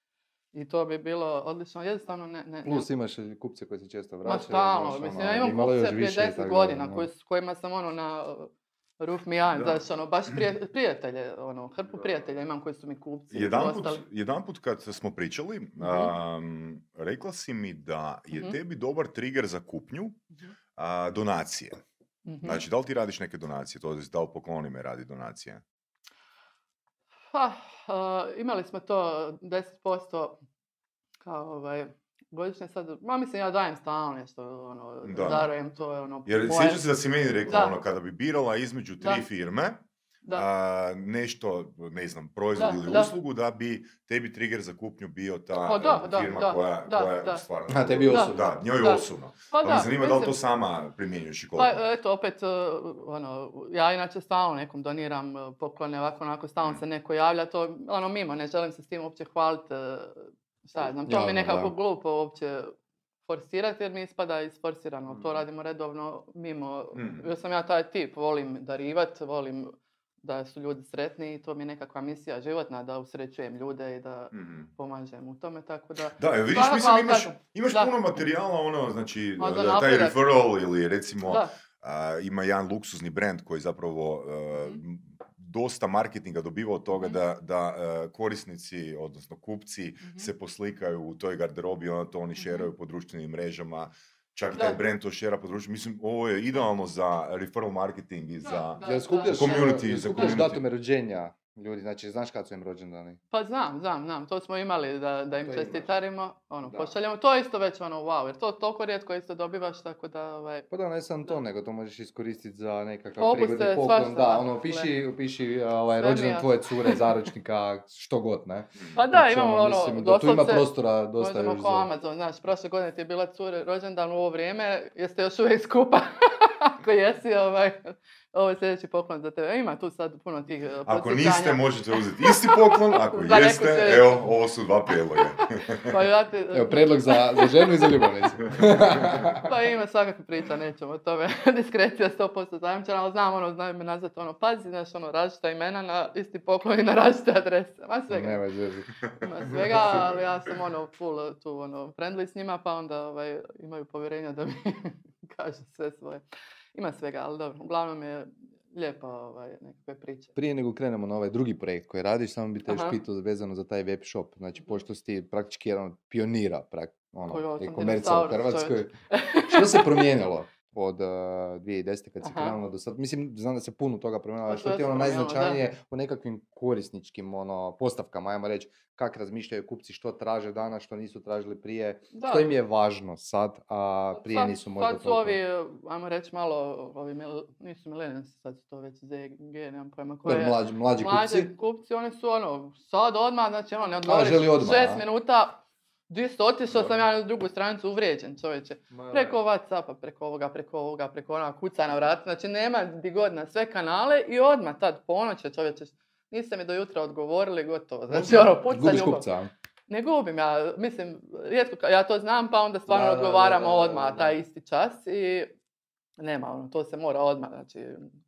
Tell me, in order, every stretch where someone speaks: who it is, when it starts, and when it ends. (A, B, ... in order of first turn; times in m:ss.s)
0:00.5-0:02.9 A
0:02.6-0:07.1 B
0:04.2-0:14.0 A
0:13.3-0:20.2 C
0:15.8-0:16.1 A
0:20.8-0:21.8 C
0:22.2-0:22.6 A
0:22.4-0:25.6 C
0:27.3-0:30.4 A
0:31.2-0:36.8 A
0:35.0-0:35.5 C
0:36.2-0:51.8 C
0:37.5-0:37.8 A
0:42.6-0:43.1 A
0:45.6-0:47.4 A
0:47.7-0:48.5 B
0:48.1-0:50.4 A
0:51.6-1:02.7 A
1:01.0-1:01.7 B
1:03.2-1:17.9 A
1:06.9-1:07.2 C
1:14.3-1:14.7 C
1:16.2-1:40.6 C
1:19.4-1:20.2 A
1:32.4-1:32.7 A
1:38.4-1:40.4 A
1:38.8-1:43.2 B
1:43.3-1:50.7 A
1:45.4-1:45.9 B
1:46.6-1:46.9 B
1:50.7-2:01.9 B
1:53.2-1:54.9 A
1:55.9-1:57.0 A
1:58.9-2:14.2 A
2:10.8-2:15.9 C
2:15.8-2:17.9 A
2:16.5-2:19.5 B
2:19.4-2:28.5 A
2:28.1-2:28.9 B
2:29.2-2:36.2 A
2:36.7-2:40.3 A
2:40.3-2:48.9 B
2:42.6-2:43.0 A
2:47.3-2:50.1 A
2:49.5-3:05.4 B
2:52.2-2:52.6 A
2:54.5-2:55.6 A
3:02.1-3:02.5 A
3:04.1-3:29.3 A
3:10.2-3:11.5 B
3:14.0-3:15.0 B
3:18.9-3:19.4 B
3:28.1-3:29.5 B
3:29.9-3:35.5 A
3:32.9-3:34.3 B
3:36.2-3:38.1 A